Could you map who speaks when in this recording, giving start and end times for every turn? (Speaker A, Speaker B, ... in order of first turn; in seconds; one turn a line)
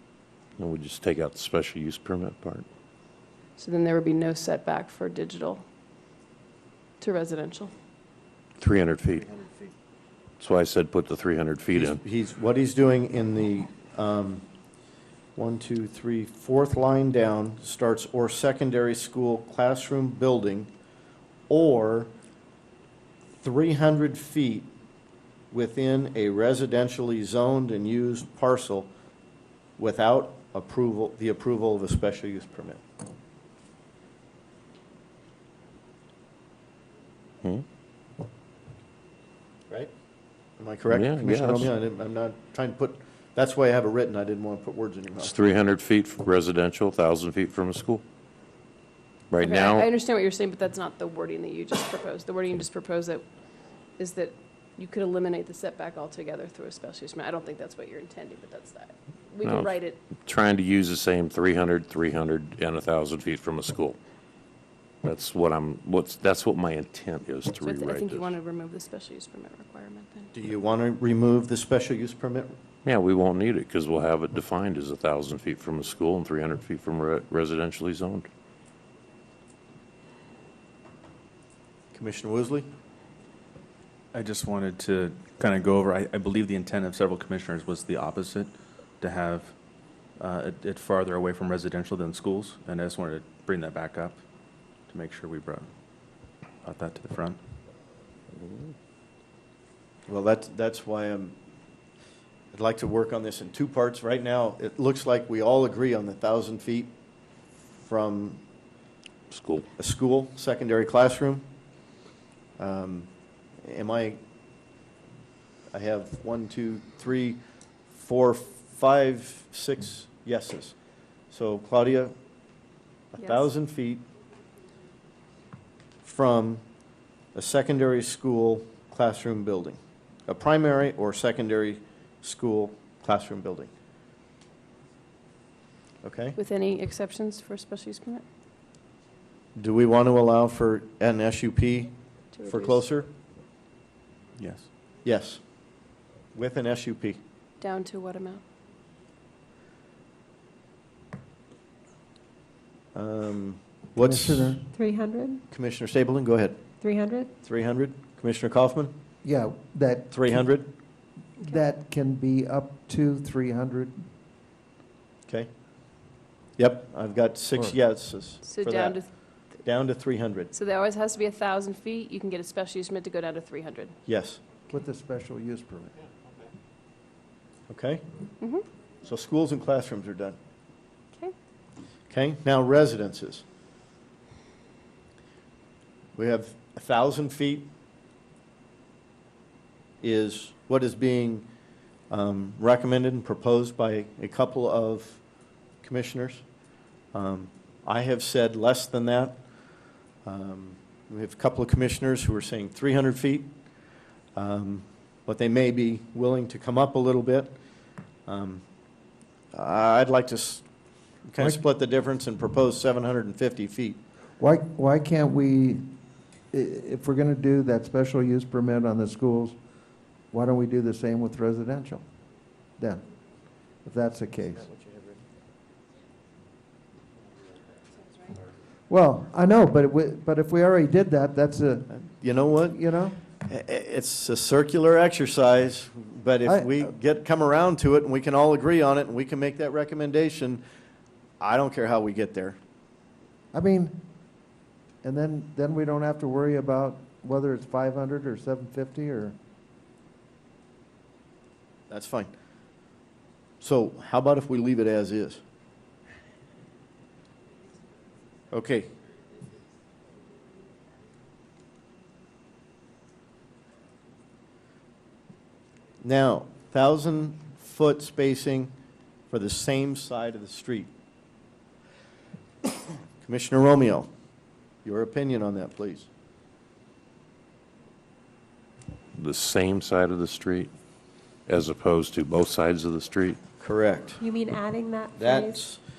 Speaker A: 0.6-2.6
Speaker B: 3.6-5.6
Speaker B: 7.0-7.7
Speaker A: 8.6-9.3
Speaker A: 10.4-12.0
Speaker C: 11.7-14.4
Speaker C: 15.3-20.7
Speaker C: 21.5-22.1
Speaker C: 23.4-24.7
Speaker C: 25.5-28.9
Speaker C: 29.8-32.8
Speaker C: 40.6-45.3
Speaker A: 40.9-41.7
Speaker A: 45.2-48.0
Speaker A: 49.3-49.9
Speaker B: 49.4-53.2
Speaker B: 54.0-60.0
Speaker A: 59.4-64.0
Speaker A: 65.0-68.3
Speaker B: 67.6-70.3
Speaker C: 70.3-72.5
Speaker A: 72.8-78.3
Speaker C: 81.9-82.7
Speaker D: 84.1-89.5
Speaker D: 90.2-94.2
Speaker D: 94.9-95.7
Speaker D: 96.6-97.4
Speaker A: 98.4-98.7
Speaker C: 100.1-101.3
Speaker C: 102.5-106.9
Speaker C: 107.8-108.4
Speaker A: 109.3-109.7
Speaker C: 109.8-111.4
Speaker C: 112.6-113.1
Speaker C: 113.6-114.2
Speaker C: 115.7-117.4
Speaker C: 117.9-120.7
Speaker C: 121.3-122.1
Speaker C: 123.1-124.0
Speaker B: 123.2-123.5
Speaker C: 126.0-126.6
Speaker C: 127.3-133.7
Speaker C: 136.0-136.3
Speaker B: 136.3-138.2
Speaker C: 139.6-141.9
Speaker B: 142.3-142.8
Speaker C: 142.5-143.1
Speaker D: 144.4-144.7
Speaker C: 145.0-145.4
Speaker C: 146.3-147.2
Speaker B: 147.6-148.4
Speaker C: 152.9-154.6
Speaker E: 154.0-154.6
Speaker F: 154.7-155.4
Speaker C: 155.5-156.7
Speaker F: 156.8-157.3
Speaker C: 157.4-158.9
Speaker E: 159.2-160.7
Speaker C: 160.1-160.7
Speaker E: 161.4-164.0
Speaker C: 166.6-169.0
Speaker B: 168.4-169.1
Speaker C: 169.6-170.5
Speaker B: 170.5-173.9
Speaker C: 174.1-174.4
Speaker E: 174.7-176.0
Speaker C: 177.7-178.0
Speaker C: 179.0-180.4
Speaker C: 182.1-183.4
Speaker C: 186.2-187.7
Speaker C: 190.0-191.4
Speaker C: 192.1-195.2
Speaker C: 195.8-196.4
Speaker C: 197.1-199.4
Speaker C: 200.2-203.5
Speaker C: 204.3-207.5
Speaker C: 208.3-208.6
Speaker C: 209.5-210.7
Speaker C: 211.2-214.0
Speaker E: 214.4-215.8
Speaker E: 216.5-219.6
Speaker E: 220.3-222.0
Speaker E: 222.8-223.0
Speaker E: 223.8-224.7
Speaker E: 228.9-233.2
Speaker C: 231.9-232.8
Speaker C: 233.3-240.6
Speaker E: 236.4-236.9
Speaker C: 241.4-242.6
Speaker E: 243.5-244.0
Speaker E: 245.0-249.3
Speaker C: 251.9-252.3
Speaker C: 253.6-255.4
Speaker C: 258.5-258.9
Speaker C: 266.0-268.7
Speaker C: 269.3-270.9
Speaker C: 273.2-274.1
Speaker C: 274.8-276.1
Speaker A: 279.1-280.7
Speaker A: 281.5-283.4
Speaker C: 283.6-284.2
Speaker F: 284.2-285.7
Speaker C: 285.1-285.8